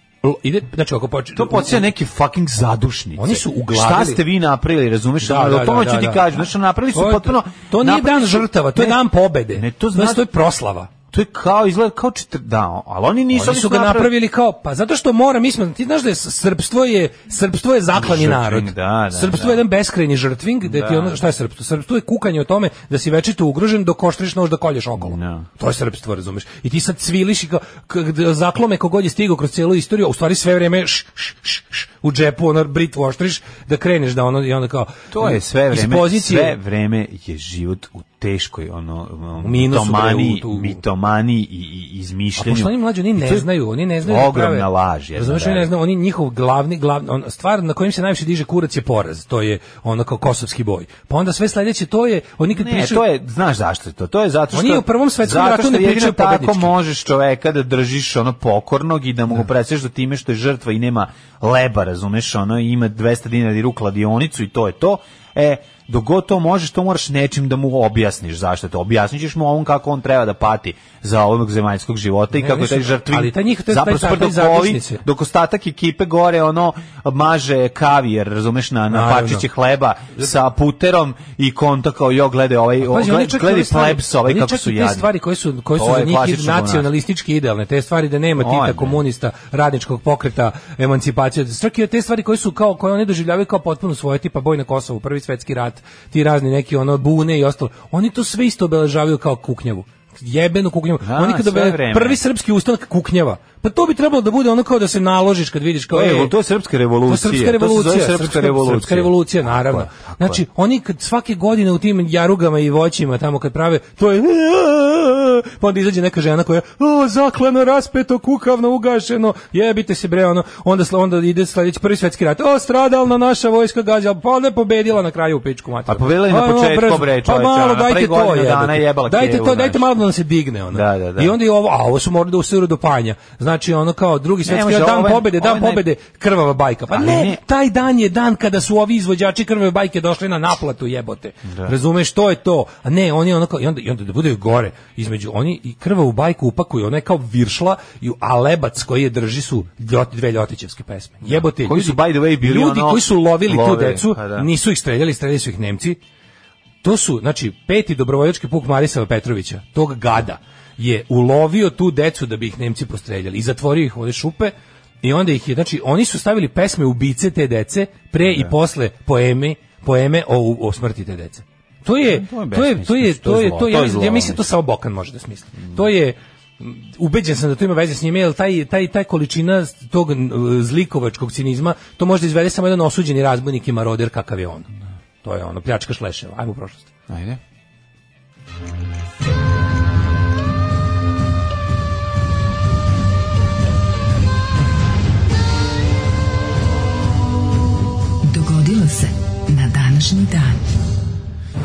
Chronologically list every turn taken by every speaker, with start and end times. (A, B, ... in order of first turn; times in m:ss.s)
0:00.2-0:01.9 A
0:01.3-0:10.3 B
0:03.2-0:04.2 A
0:05.2-0:06.4 A
0:06.9-0:10.9 A
0:11.1-0:14.1 B
0:13.3-0:36.6 A
0:17.9-0:19.6 B
0:20.6-0:21.2 B
0:25.0-0:25.5 B
0:35.1-0:43.5 B
0:39.4-0:40.8 A
0:42.4-0:53.0 A
0:44.0-0:45.7 B
0:52.5-1:25.1 B
0:54.5-0:56.7 A
1:12.3-1:15.0 A
1:18.9-1:19.4 A
1:22.8-1:46.3 A
1:25.7-1:26.9 B
1:28.4-1:29.0 B
1:41.0-1:42.2 B
1:45.9-1:50.4 B
1:47.0-2:36.0 A
2:05.9-2:10.0 B
2:10.7-2:11.3 B
2:14.4-2:15.8 B
2:16.9-2:17.4 B
2:21.4-2:21.7 B
2:31.2-2:34.5 B
2:36.8-3:04.7 A
2:48.2-2:48.5 B
2:52.0-2:54.4 B
3:05.2-3:06.9 A
3:07.1-3:07.4 B
3:18.2-3:20.6 C